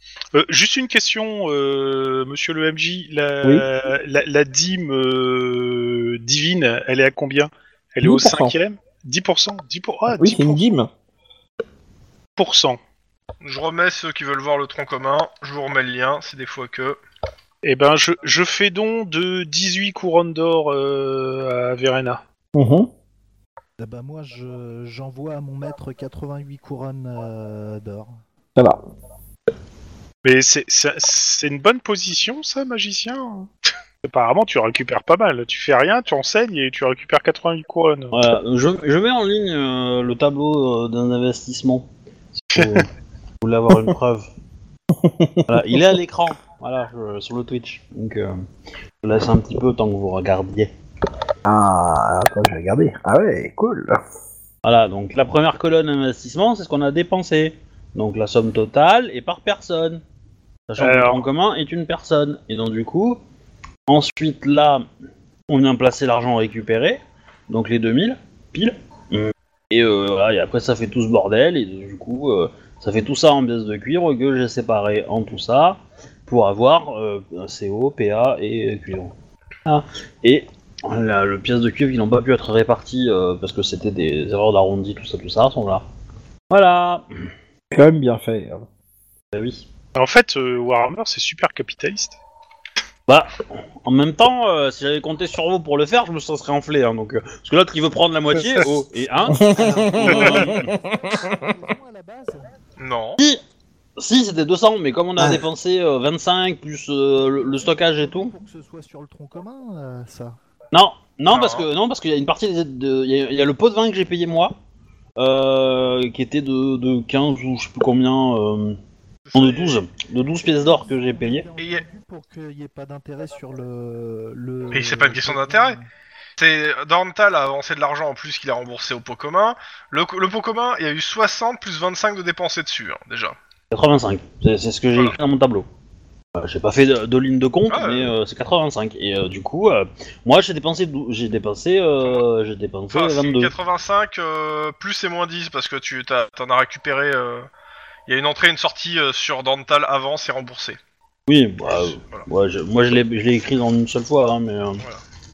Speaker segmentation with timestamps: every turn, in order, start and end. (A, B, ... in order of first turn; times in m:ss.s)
0:00.3-0:10.7 A
0:08.0-0:08.6 B
0:10.2-0:10.9 B
0:12.4-0:12.8 A
0:13.4-0:17.0 C
0:17.6-0:22.2 A
0:22.5-0:22.9 B
0:23.8-0:28.2 D
0:28.6-0:28.8 B
0:30.2-0:33.5 A
0:34.0-0:38.2 A
0:38.1-0:42.9 E
0:43.4-0:44.3 E
0:44.9-0:45.9 B
0:45.5-0:48.4 E
0:49.0-0:50.7 E
0:51.4-0:54.0 B
0:54.6-1:00.0 E
1:00.7-1:03.2 E
1:00.8-1:01.2 A
1:03.9-1:04.8 E
1:05.5-1:19.1 E
1:19.6-1:25.8 E
1:26.5-1:27.0 E
1:27.7-1:28.6 B
1:29.3-1:29.7 E
1:29.9-1:32.2 A
1:33.1-1:40.7 E
1:39.3-1:41.4 B
1:39.3-1:42.5 D
1:42.8-1:43.2 C
1:44.0-1:48.3 E
1:45.2-1:45.4 B
1:47.5-1:50.4 D
1:50.7-1:54.5 E
1:51.3-1:51.7 C
1:55.2-1:58.8 E
1:59.3-1:59.8 C
1:59.3-2:01.4 E
2:00.5-2:05.9 D
2:01.6-2:01.8 C
2:04.7-2:05.8 C
2:06.4-2:13.4 C
2:13.7-2:15.6 E
2:16.3-2:23.5 E
2:17.7-2:18.1 C
2:22.9-2:27.5 C
2:28.1-2:30.8 C
2:31.3-2:34.8 E
2:31.6-2:32.3 C